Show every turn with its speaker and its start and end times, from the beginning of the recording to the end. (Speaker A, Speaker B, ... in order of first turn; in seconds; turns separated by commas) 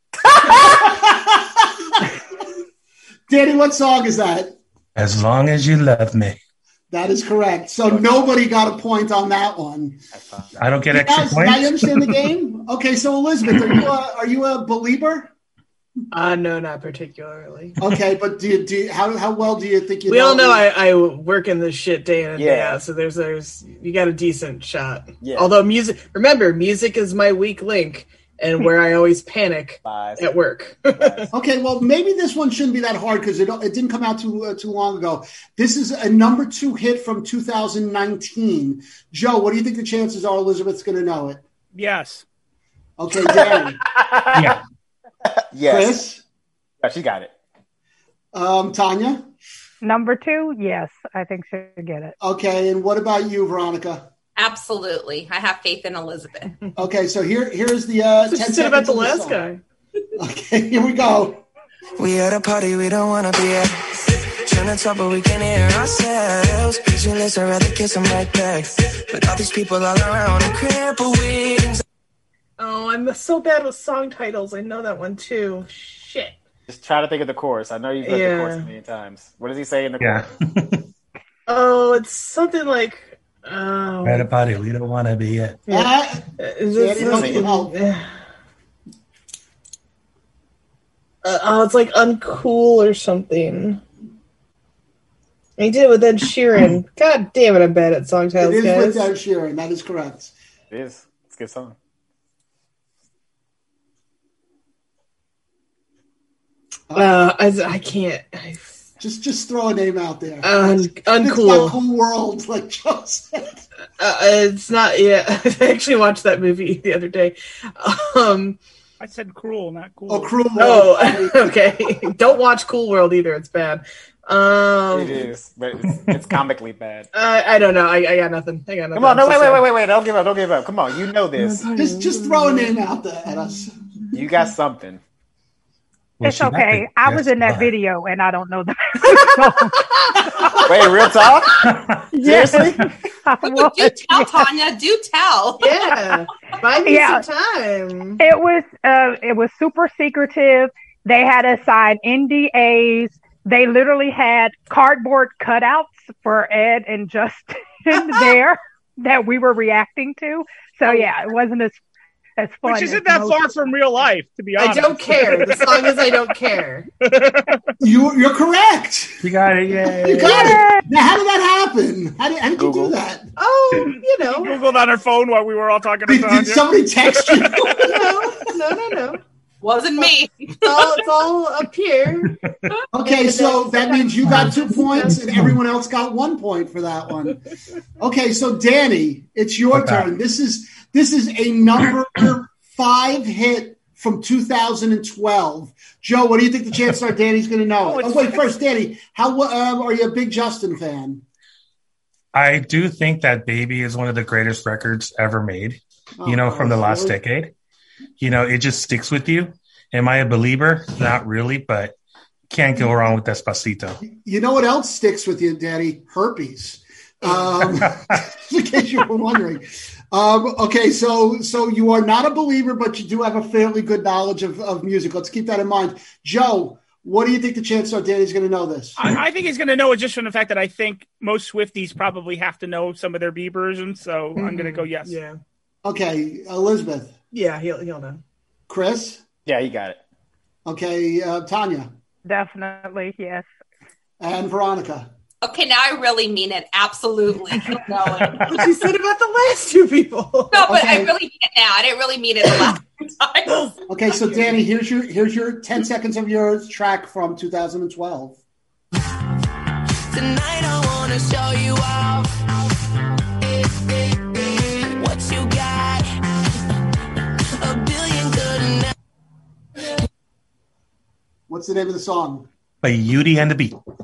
Speaker A: 0.4-0.7, Speaker B: 0.5-2.1, Speaker B: 3.3-4.5, Speaker C: 5.0-6.4, Speaker B: 6.9-10.0, Speaker A: 7.8-8.3, Speaker A: 10.1-10.6, Speaker C: 10.6-12.2, Speaker B: 10.9-15.3, Speaker D: 16.1-17.8, Speaker B: 17.8-20.7, Speaker D: 20.1-31.3, Speaker A: 22.3-22.8, Speaker A: 25.2-25.6, Speaker A: 29.8-30.3, Speaker A: 30.9-31.3, Speaker B: 31.3-41.4, Speaker E: 41.7-42.2, Speaker B: 43.0-43.8, Speaker A: 43.3-44.5, Speaker A: 45.5-46.0, Speaker B: 45.6-46.2, Speaker A: 46.8-47.3, Speaker B: 48.3-49.2, Speaker F: 49.8-52.1, Speaker B: 52.2-54.0, Speaker G: 54.4-56.5, Speaker B: 56.8-59.4, Speaker D: 58.3-59.6, Speaker B: 60.1-61.4, Speaker H: 62.0-71.8, Speaker D: 72.6-76.4, Speaker A: 76.7-80.2, Speaker D: 78.0-78.7, Speaker C: 80.0-80.8, Speaker D: 81.5-84.3, Speaker C: 84.0-85.6, Speaker D: 85.7-88.0, Speaker B: 85.7-87.7, Speaker A: 87.0-87.5, Speaker D: 91.2-93.8, Speaker D: 95.6-99.1, Speaker B: 98.4-100.3, Speaker A: 100.7-101.7, Speaker D: 106.9-108.7, Speaker B: 109.0-113.6, Speaker D: 110.4-111.8, Speaker D: 114.0-118.6, Speaker E: 119.0-120.4, Speaker B: 120.1-121.9, Speaker D: 120.6-125.3, Speaker A: 124.9-127.1, Speaker C: 125.9-126.2, Speaker D: 127.1-129.7, Speaker A: 128.9-131.7, Speaker D: 131.4-132.7, Speaker B: 131.7-133.7, Speaker A: 134.1-135.0, Speaker C: 136.2-137.7, Speaker F: 136.2-141.0, Speaker A: 140.7-141.7, Speaker C: 141.6-142.0, Speaker F: 142.1-144.5, Speaker A: 142.2-142.8, Speaker G: 143.4-145.9, Speaker D: 145.6-148.2, Speaker F: 146.7-147.2, Speaker F: 148.2-161.8, Speaker F: 162.4-163.6, Speaker E: 162.6-166.1, Speaker D: 164.6-166.9, Speaker E: 167.0-167.6, Speaker B: 167.8-169.2, Speaker C: 169.2-170.6, Speaker F: 169.9-170.8, Speaker B: 170.0-173.3, Speaker A: 172.6-172.9, Speaker D: 173.3-174.6, Speaker E: 174.3-176.7, Speaker B: 176.1-178.3, Speaker D: 177.8-179.2, Speaker G: 179.6-181.0, Speaker D: 180.6-182.3, Speaker B: 182.9-187.4, Speaker D: 183.0-185.2, Speaker C: 185.3-185.6, Speaker B: 188.0-201.2, Speaker C: 189.7-190.1, Speaker E: 197.8-198.4, Speaker C: 202.3-207.5, Speaker B: 206.2-207.2, Speaker C: 208.2-211.9, Speaker C: 212.5-214.0, Speaker B: 214.0-229.0, Speaker E: 229.0-235.1, Speaker D: 234.3-235.4, Speaker B: 235.8-237.1, Speaker D: 237.3-238.2, Speaker B: 238.7-239.2, Speaker A: 239.4-240.0, Speaker B: 240.6-241.9, Speaker F: 242.2-243.5, Speaker B: 244.2-245.1, Speaker G: 245.4-248.6, Speaker D: 248.3-250.7, Speaker G: 250.5-253.7, Speaker B: 250.6-251.1, Speaker B: 253.9-258.4, Speaker H: 260.1-262.4, Speaker H: 263.4-266.1, Speaker H: 267.6-268.9, Speaker B: 271.5-272.5, Speaker C: 272.8-273.8